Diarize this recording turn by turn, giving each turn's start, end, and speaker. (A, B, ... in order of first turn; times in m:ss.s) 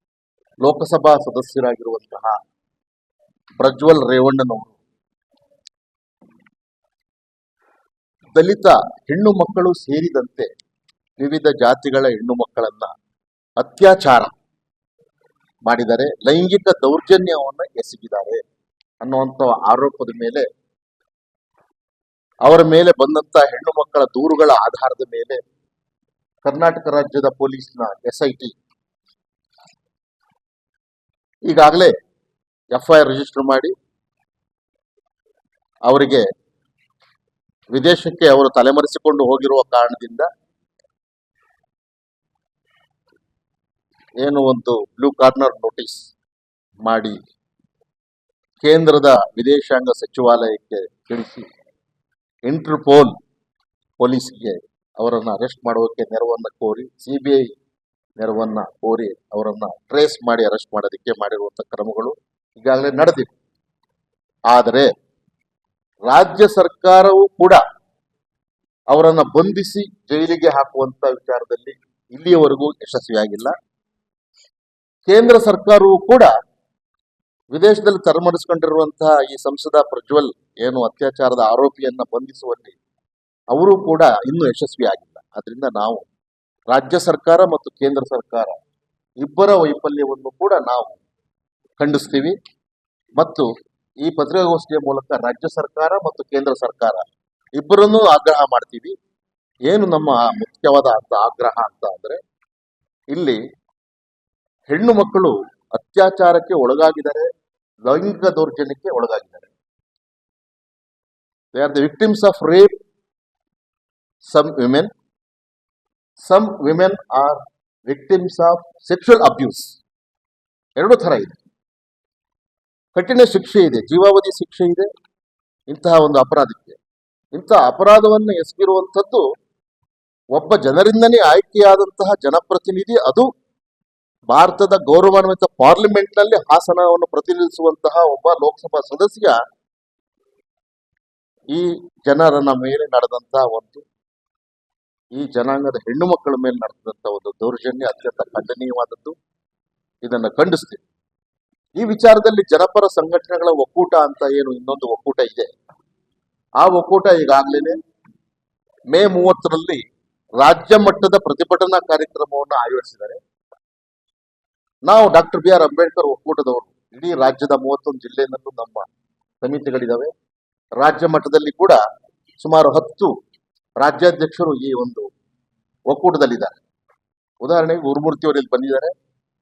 0:00.6-0:02.4 A
0:03.6-0:04.8 A
0:08.4-0:10.5 A
0:11.2-0:12.9 A
0:13.6-0:14.3 A
0:15.6-0:18.4 A
0:19.0-0:20.5 A
0:22.4-0:25.4 A
0:26.4-0:28.5 A
0:31.5-0:32.0 A
0:32.7-0:33.7 A
0:35.9-0:36.3 A
0:37.7-0:40.3 A
0:44.2-0:46.1 A
0:46.8-0:47.2 A
0:48.6-0:51.5 A
0:52.5-0:53.2 A
0:54.0-0:57.5 A
0:58.2-1:03.4 A
1:04.5-1:04.9 A
1:06.1-1:07.6 A
1:08.9-1:13.5 A
1:15.1-1:16.3 A
1:17.5-1:22.8 A
1:23.5-1:26.0 A
1:26.7-1:28.6 A
1:29.2-1:31.0 A
1:31.8-1:32.4 A
1:33.2-1:33.5 A
1:34.0-1:37.0 A
1:37.6-1:39.0 A
1:39.7-1:42.2 A
1:43.1-1:43.4 A
1:44.7-1:47.3 A
1:47.9-1:49.5 A
1:51.5-1:52.7 A
1:54.3-1:54.9 A
1:56.2-1:59.8 A
2:00.8-2:01.4 A
2:03.0-2:04.9 A
2:05.7-2:06.8 A
2:07.3-2:09.2 A
2:10.4-2:13.3 A
2:14.3-2:19.4 A
2:21.5-2:23.8 A
2:25.2-2:29.2 A
2:30.0-2:30.8 A
2:31.8-2:35.5 A
2:36.6-2:37.8 A
2:38.9-2:39.8 A
2:40.4-2:43.2 A
2:44.8-2:48.9 A
2:49.4-2:50.1 A
2:50.8-2:51.8 A
2:52.4-2:53.1 A
2:53.8-2:55.1 A
2:55.9-2:56.6 A
2:57.4-2:58.9 A